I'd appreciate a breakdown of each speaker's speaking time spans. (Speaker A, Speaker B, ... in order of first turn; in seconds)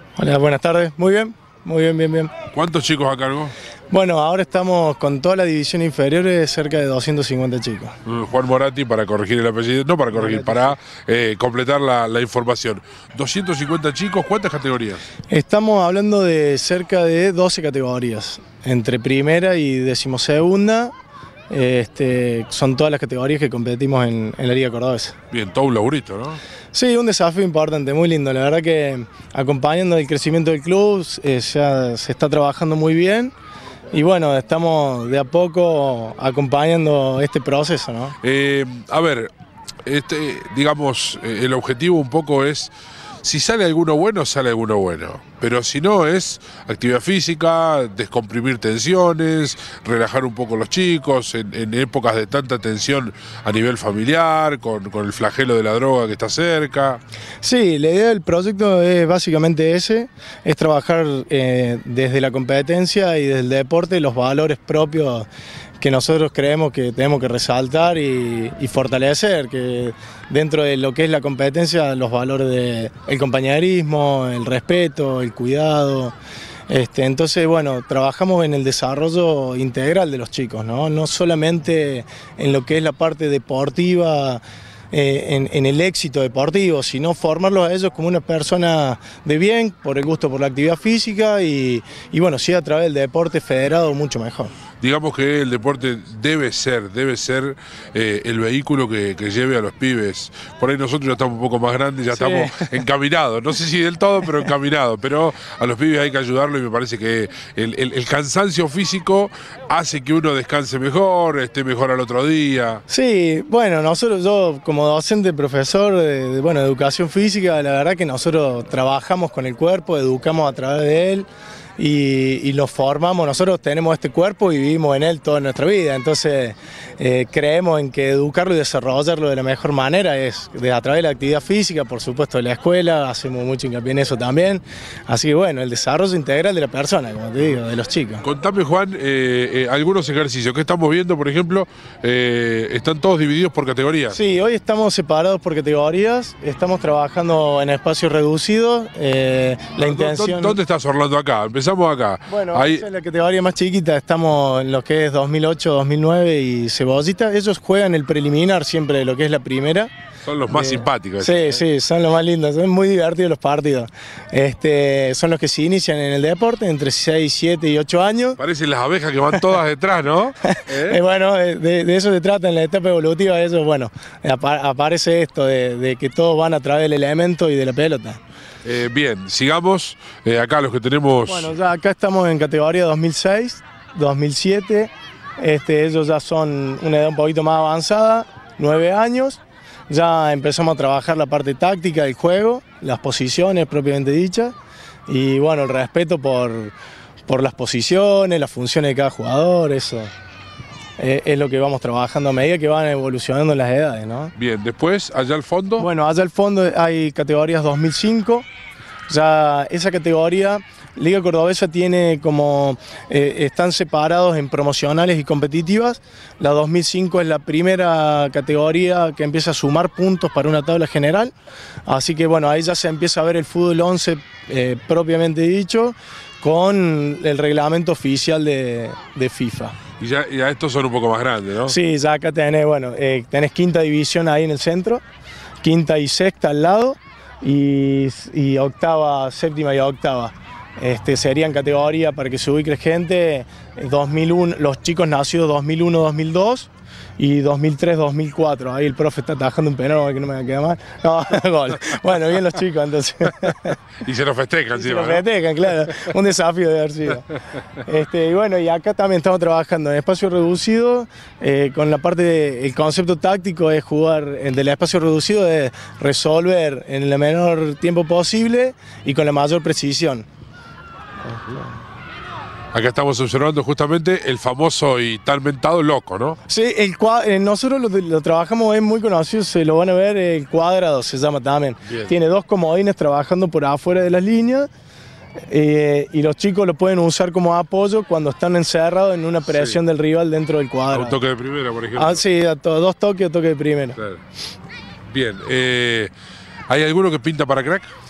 Speaker A: 0.2-2.3, 3.9-8.0, 10.1-10.8, 15.3-20.9, 21.5-25.1, 26.7-33.3, 33.9-38.1, 57.4-65.3, 65.8-76.2, 76.7-94.5, 102.2-102.8, 112.9-138.2, 144.1-150.6, 152.3-159.9, 160.5-168.4, 170.4-178.2, 181.3-194.6, 195.1-196.8, 197.3-200.1, 201.0-204.3, 205.8-208.5, 209.1-221.3, 221.9-229.8, 231.7-235.0, 235.6-253.8, 254.7-270.3, 271.2-271.8, 276.5-284.7, 285.5-291.2, 291.9-294.0
Speaker B: 2.5-3.5, 8.1-15.0, 25.3-26.4, 38.2-39.3, 39.9-42.7, 43.2-57.0, 94.8-112.8, 138.2-144.2, 149.8-152.8, 160.2-161.6, 168.4-171.0, 178.6-181.5, 204.3-205.9, 230.0-231.8, 254.0-255.2, 272.7-276.4, 281.9-282.1, 289.5-289.8, 290.9-292.2, 294.0-294.2, 295.1-296.1, 296.7-297.9